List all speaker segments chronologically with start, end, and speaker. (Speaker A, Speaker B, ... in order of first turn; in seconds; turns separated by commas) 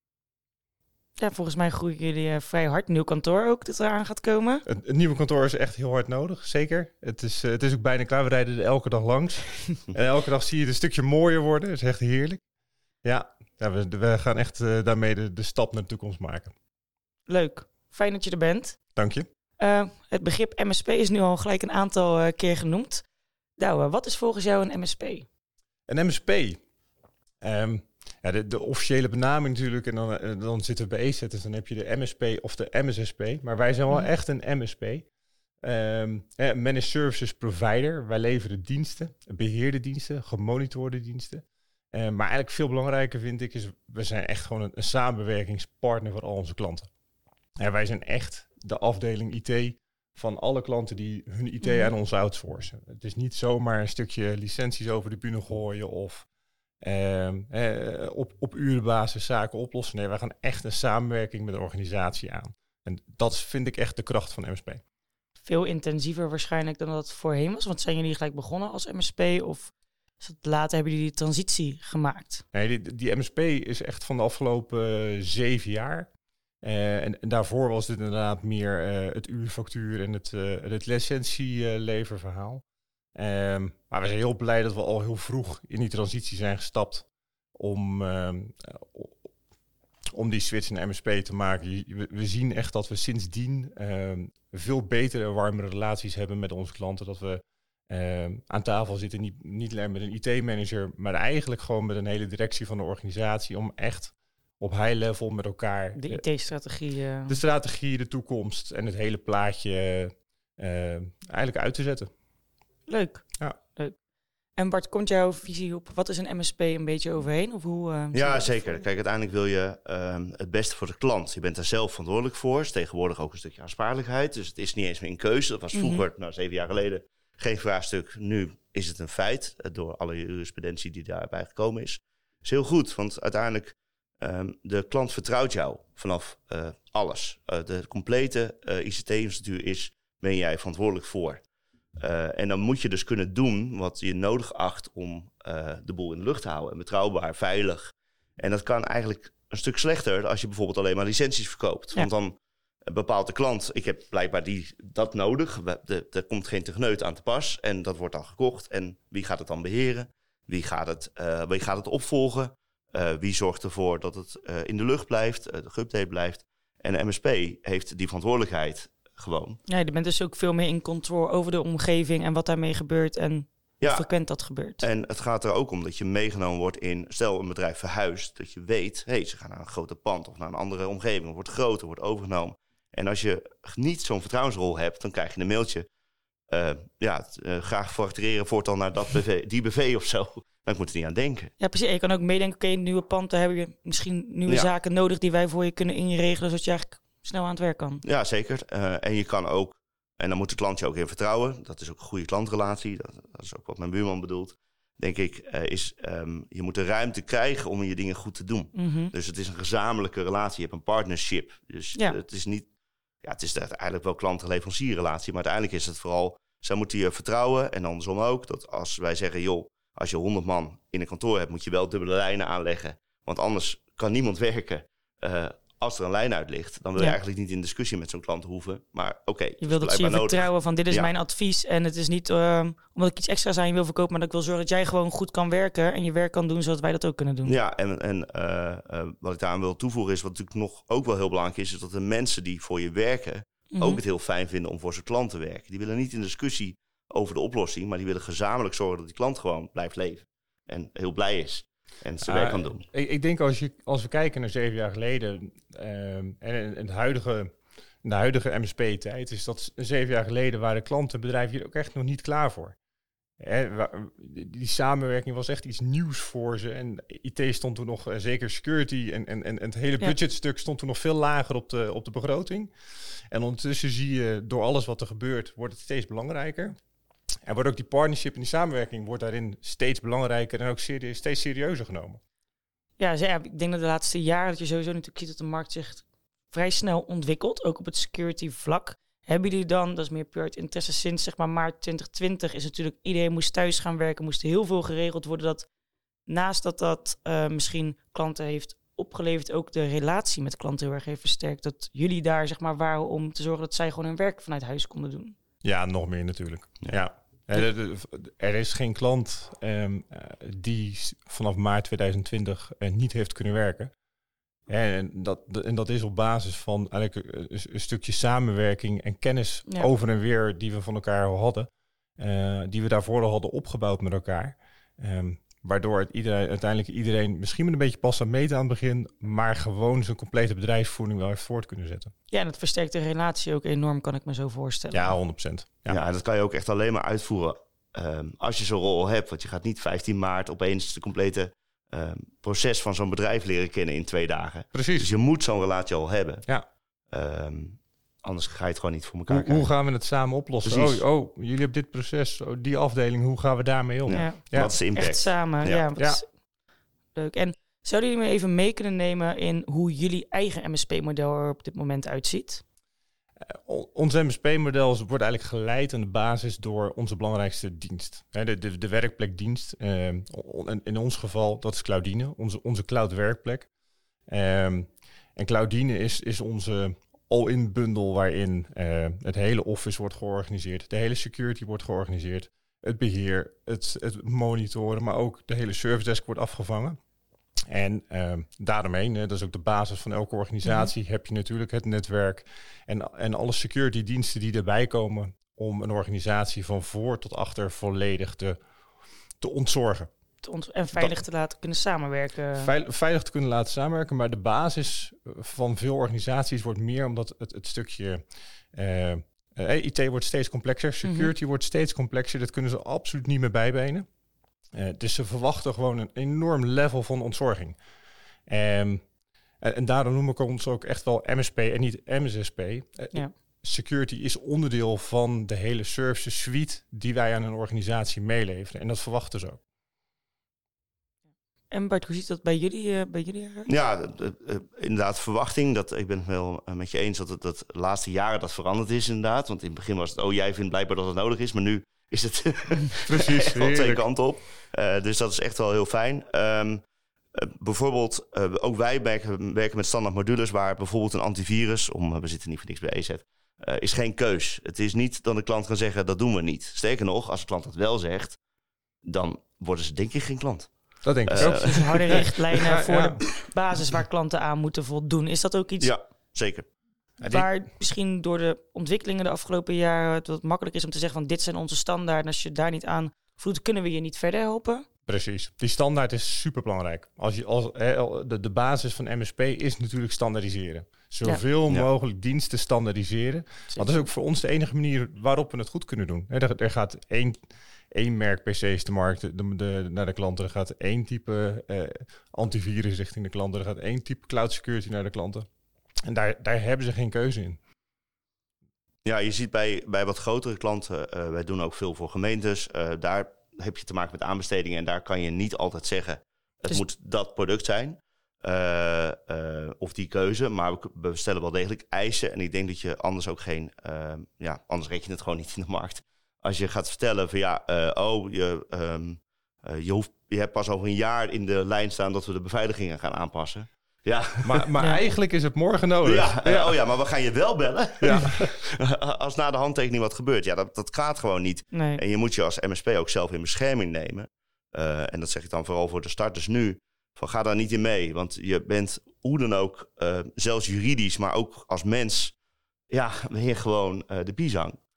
Speaker A: 1.2-4.6, Speaker B: 4.7-12.4, Speaker B: 13.0-16.5, Speaker A: 17.3-18.8, Speaker B: 18.9-19.3, Speaker A: 19.6-23.0, Speaker A: 23.6-25.2, Speaker B: 25.9-26.6, Speaker B: 27.4-35.1, Speaker B: 35.6-46.9, Speaker B: 47.6-56.2, Speaker A: 51.6-51.9, Speaker B: 56.8-64.8, Speaker A: 65.4-72.4, Speaker B: 72.5-76.1, Speaker B: 76.6-82.6, Speaker B: 83.2-89.2, Speaker B: 90.2-106.2, Speaker A: 106.0-107.4, Speaker B: 107.3-112.1, Speaker A: 112.9-113.9, Speaker A: 114.6-118.8, Speaker C: 118.1-141.4, Speaker A: 125.7-126.0, Speaker C: 142.0-152.3, Speaker C: 152.9-169.6, Speaker A: 169.7-174.8, Speaker C: 173.8-174.1, Speaker C: 174.8-185.8, Speaker C: 186.5-191.5, Speaker A: 191.6-198.0, Speaker C: 198.0-212.7, Speaker A: 208.7-209.1, Speaker C: 213.2-231.1, Speaker A: 229.6-237.5, Speaker C: 237.4-252.8, Speaker A: 243.7-244.0, Speaker B: 252.2-262.8, Speaker B: 263.4-272.7, Speaker B: 273.3-276.7, Speaker B: 277.4-282.2, Speaker A: 283.0-295.7, Speaker A: 296.3-305.4, Speaker B: 305.6-313.9, Speaker B: 314.7-332.1, Speaker A: 332.3-335.1, Speaker B: 334.9-336.0, Speaker C: 335.9-346.4, Speaker B: 344.7-345.1, Speaker C: 347.1-349.7, Speaker B: 349.3-354.7, Speaker C: 350.6-351.0, Speaker C: 354.1-355.9, Speaker A: 354.1-356.3, Speaker A: 357.1-362.6, Speaker B: 363.5-373.7, Speaker B: 374.3-387.0, Speaker B: 387.7-398.6, Speaker A: 390.6-390.9, Speaker B: 399.4-400.1, Speaker A: 400.4-402.7, Speaker B: 402.6-408.2, Speaker B: 408.7-414.1, Speaker A: 411.0-411.3, Speaker B: 414.7-417.8, Speaker B: 418.5-419.0, Speaker B: 419.6-429.6, Speaker A: 431.7-433.7, Speaker C: 433.7-446.8, Speaker B: 443.1-444.0, Speaker C: 447.4-458.4, Speaker C: 459.1-460.7, Speaker B: 461.0-463.2, Speaker C: 461.3-462.4, Speaker A: 461.3-465.9, Speaker C: 465.8-466.7, Speaker B: 467.2-467.5, Speaker A: 467.2-474.9, Speaker B: 475.1-487.4, Speaker A: 483.7-484.1, Speaker B: 487.9-495.4, Speaker B: 496.1-497.6, Speaker C: 499.0-524.6, Speaker B: 524.4-526.8, Speaker C: 526.0-542.3, Speaker B: 528.0-528.4, Speaker A: 531.7-532.0, Speaker C: 542.9-544.8